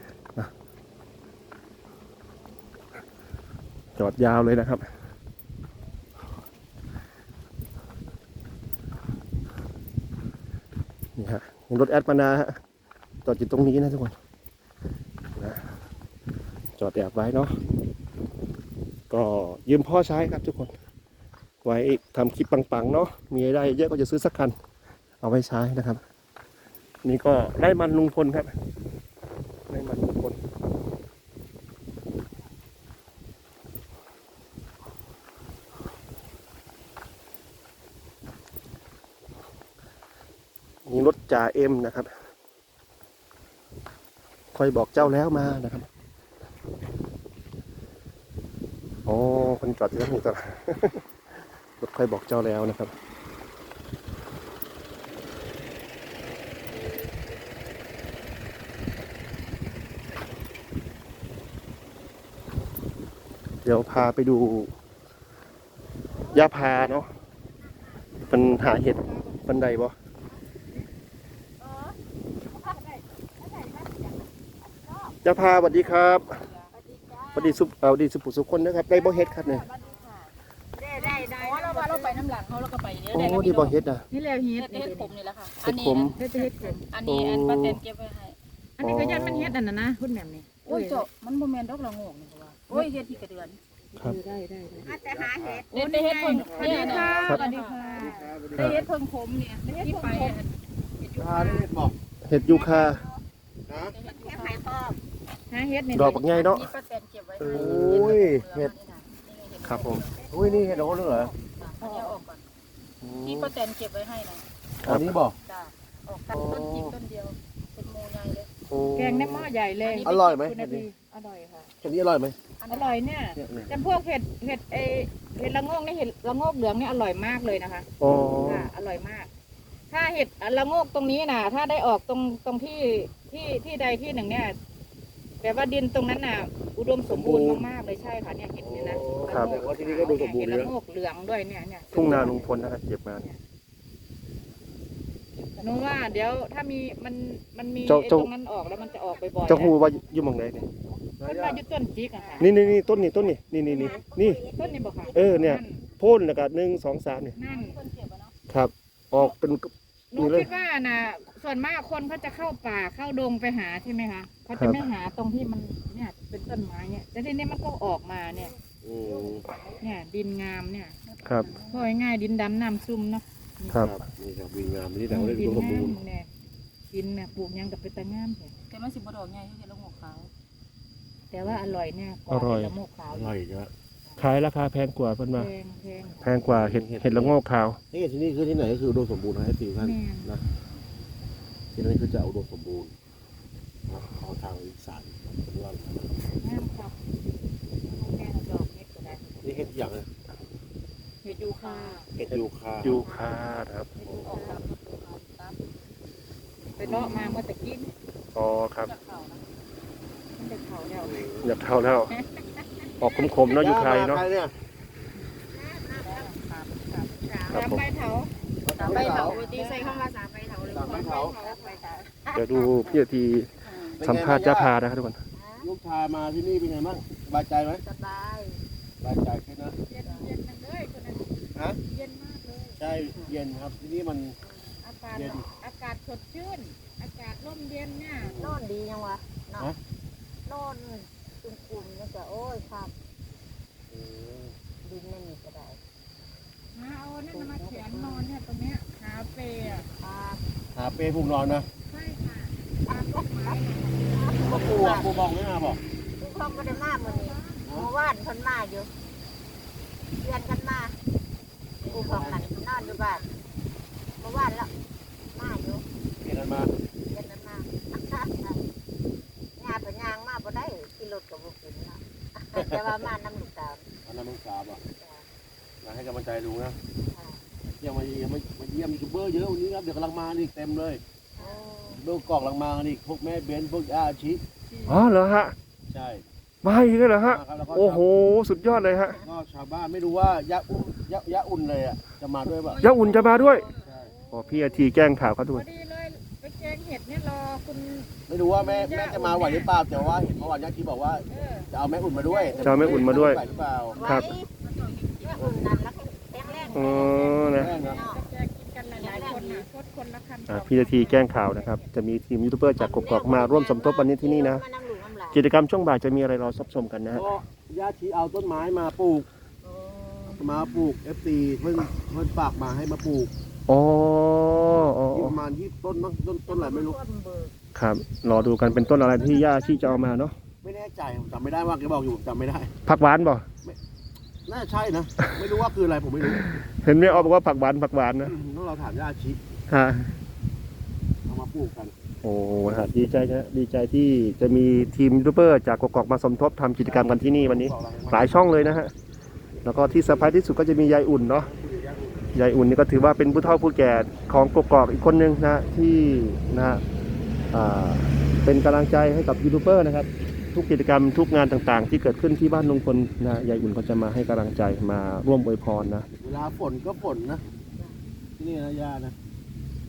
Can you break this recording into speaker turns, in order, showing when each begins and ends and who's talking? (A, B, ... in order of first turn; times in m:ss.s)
0:04.0-0:04.8 A
0:11.2-0:12.6 A
0:13.2-0:14.2 A
0:15.4-0:15.6 A
0:16.8-0:17.6 A
0:19.1-0:20.7 A
0:21.6-0:24.6 A
0:25.2-0:26.0 A
0:27.0-0:28.5 A
0:29.7-0:30.4 A
0:40.9-0:42.1 A
0:44.5-0:45.9 A
0:49.1-0:51.0 A
0:51.8-0:52.9 A
1:03.6-1:04.7 A
1:06.2-1:07.0 B
1:06.3-1:07.1 A
1:08.3-1:10.0 A
1:11.6-1:12.0 B
1:12.5-1:13.0 C
1:15.2-1:16.4 A
1:15.8-1:16.4 C
1:16.7-1:17.6 B
1:17.3-1:19.7 A
1:18.9-1:20.3 C
1:20.7-1:22.1 B
1:21.0-1:21.5 C
1:21.0-1:23.8 D
1:23.1-1:24.0 A
1:24.1-1:25.2 C
1:24.6-1:28.4 D
1:25.6-1:26.2 A
1:26.1-1:26.9 C
1:27.1-1:27.8 A
1:28.8-1:31.0 C
1:28.8-1:29.6 A
1:30.6-1:33.6 D
1:34.0-1:34.9 C
1:34.8-1:35.7 E
1:34.8-1:37.1 B
1:35.7-1:41.7 D
1:35.7-1:38.3 C
1:36.3-1:38.8 E
1:39.6-1:40.4 C
1:41.2-1:42.0 E
1:42.2-1:43.0 A
1:42.4-1:43.2 B
1:43.7-1:44.0 E
1:43.7-1:44.6 D
1:44.0-1:45.0 B
1:45.5-1:46.2 C
1:45.9-1:46.7 A
1:46.1-1:50.6 D
1:47.4-1:48.2 A
1:47.5-1:48.7 E
1:49.6-1:50.0 A
1:50.3-1:51.6 B
1:50.3-1:51.3 E
1:51.2-1:52.4 D
1:51.8-1:52.2 C
1:53.0-1:53.5 A
1:53.2-1:54.4 D
1:54.8-1:55.4 E
1:54.8-1:55.1 A
1:55.4-1:55.7 D
1:56.1-1:56.4 B
1:56.3-1:58.5 D
1:58.7-1:59.5 A
1:59.0-2:01.7 C
1:59.8-2:00.2 D
2:00.0-2:00.9 E
2:01.8-2:02.4 E
2:02.6-2:03.0 D
2:02.7-2:07.9 C
2:03.4-2:03.8 E
2:08.0-2:08.7 A
2:08.4-2:09.3 C
2:09.9-2:14.6 C
2:15.4-2:22.6 C
2:17.1-2:17.6 E
2:18.6-2:20.7 E
2:19.3-2:19.6 A
2:21.9-2:23.3 A
2:25.6-2:29.8 C
2:27.9-2:28.3 A
2:28.7-2:29.9 B
2:29.5-2:30.7 A
2:31.2-2:31.6 E
2:31.2-2:32.5 C
2:32.2-2:35.9 B
2:32.4-2:34.4 A
2:34.6-2:35.8 C
2:35.1-2:37.4 A
2:37.4-2:37.8 C
2:37.5-2:38.3 D
2:38.5-2:40.5 A
2:40.1-2:48.6 C
2:44.6-2:44.9 A
2:48.8-2:49.5 E
2:49.1-2:49.8 D
2:49.8-2:51.0 C
2:51.1-2:52.0 D
2:51.2-2:51.5 A
2:51.7-2:53.8 C
2:53.7-2:54.0 A
2:53.8-2:56.0 E
2:55.1-2:56.3 C
2:56.9-2:58.5 C
2:58.7-3:00.3 D
3:01.3-3:03.3 C
3:02.3-3:02.8 A
3:03.1-3:03.7 E
3:04.2-3:05.5 A
3:05.4-3:06.3 C
3:06.2-3:07.8 A
3:06.4-3:07.4 E
3:07.9-3:10.4 E
3:09.8-3:10.3 C
3:11.8-3:12.9 E
3:13.9-3:16.2 E
3:16.4-3:17.0 C
3:17.8-3:19.6 C
3:19.4-3:20.1 E
3:21.2-3:22.1 C
3:21.6-3:22.1 D
3:22.2-3:23.0 E
3:22.3-3:23.9 A
3:22.9-3:23.3 B
3:24.0-3:25.7 D
3:24.0-3:24.3 E
3:24.2-3:24.6 C
3:26.8-3:27.9 C
3:26.8-3:27.4 A
3:28.4-3:28.9 A
3:28.8-3:29.5 D
3:30.4-3:31.3 C
3:31.0-3:31.5 E
3:31.4-3:32.1 A
3:32.1-3:32.4 C
3:33.0-3:34.2 A
3:33.5-3:34.5 E
3:35.5-3:36.4 B
3:36.1-3:36.4 C
3:37.1-3:37.4 B
3:37.4-3:38.3 C
3:37.5-3:37.8 A
3:38.6-3:39.4 E
3:38.8-3:42.0 D
3:38.8-3:40.1 B
3:39.1-3:40.0 C
3:40.7-3:41.4 E
3:40.9-3:42.4 B
3:42.4-3:45.2 A
3:43.6-3:44.0 D
3:44.0-3:44.7 E
3:45.3-3:45.7 B
3:45.6-3:47.8 E
3:47.8-3:48.6 B
3:49.0-3:49.8 E
3:49.9-3:51.3 C
3:50.0-3:50.3 B
3:51.8-3:52.8 C
3:52.8-3:54.4 E
3:54.4-3:54.8 B
3:54.8-3:58.4 C
3:55.1-3:55.4 E
3:58.2-3:58.6 E
3:58.4-3:59.7 B
4:00.5-4:02.9 B
4:03.9-4:04.5 E
4:04.8-4:05.8 B
4:06.7-4:09.9 C
4:07.3-4:08.3 B
4:09.9-4:10.4 B
4:10.8-4:11.7 E
4:11.9-4:14.4 C
4:12.9-4:15.1 B
4:14.4-4:15.8 E
4:16.2-4:18.9 B
4:16.2-4:17.6 C
4:17.6-4:17.9 E
4:20.2-4:21.0 B
4:21.8-4:23.1 E
4:21.8-4:23.2 B
4:24.2-4:24.7 B
4:25.3-4:25.8 B
4:26.2-4:26.7 E
4:27.1-4:28.6 B
4:29.6-4:33.9 B
4:34.1-4:34.8 E
4:35.0-4:35.2 B
4:35.8-4:36.8 E
4:37.1-4:37.6 B
4:37.7-4:41.0 E
4:41.4-4:42.0 B
4:41.9-4:44.4 E
4:44.7-4:45.1 D
4:44.9-4:45.6 A
4:45.9-4:46.2 E
4:46.6-4:49.2 A
4:47.2-4:48.0 E
4:49.0-4:49.3 B
4:49.2-4:52.8 E
4:52.5-4:53.8 D
4:52.8-4:53.7 A
4:53.8-4:54.2 E
4:54.1-4:54.7 C
4:54.3-4:55.7 A
4:55.5-4:59.7 C
4:58.3-5:04.1 E
5:01.3-5:01.7 C
5:02.2-5:03.3 C
5:02.6-5:03.4 A
5:02.7-5:03.0 B
5:03.7-5:05.9 D
5:04.0-5:04.5 B
5:04.0-5:04.3 A
5:05.2-5:08.2 B
5:06.4-5:11.4 C
5:06.7-5:07.8 A
5:07.5-5:08.1 E
5:09.0-5:09.4 D
5:09.0-5:09.7 B
5:10.5-5:14.6 A
5:12.8-5:15.4 B
5:15.3-5:17.3 A
5:17.1-5:19.3 E
5:19.6-5:20.9 B
5:20.3-5:23.3 E
5:23.7-5:25.4 A
5:25.1-5:27.0 E
5:26.5-5:27.5 B
5:27.8-5:30.4 A
5:28.3-5:30.0 B
5:30.6-5:32.7 E
5:32.9-5:33.5 A
5:34.5-5:37.3 E
5:36.4-5:38.4 A
5:38.2-5:39.4 E
5:39.7-5:40.1 A
5:41.3-5:41.9 E
5:42.2-5:48.9 A
5:46.8-5:48.8 E
5:49.6-5:51.5 A
5:49.8-5:50.4 E
5:51.4-5:52.3 E
5:52.3-5:56.8 A
5:57.5-6:06.1 A
6:06.2-6:07.4 E
6:08.4-6:09.1 E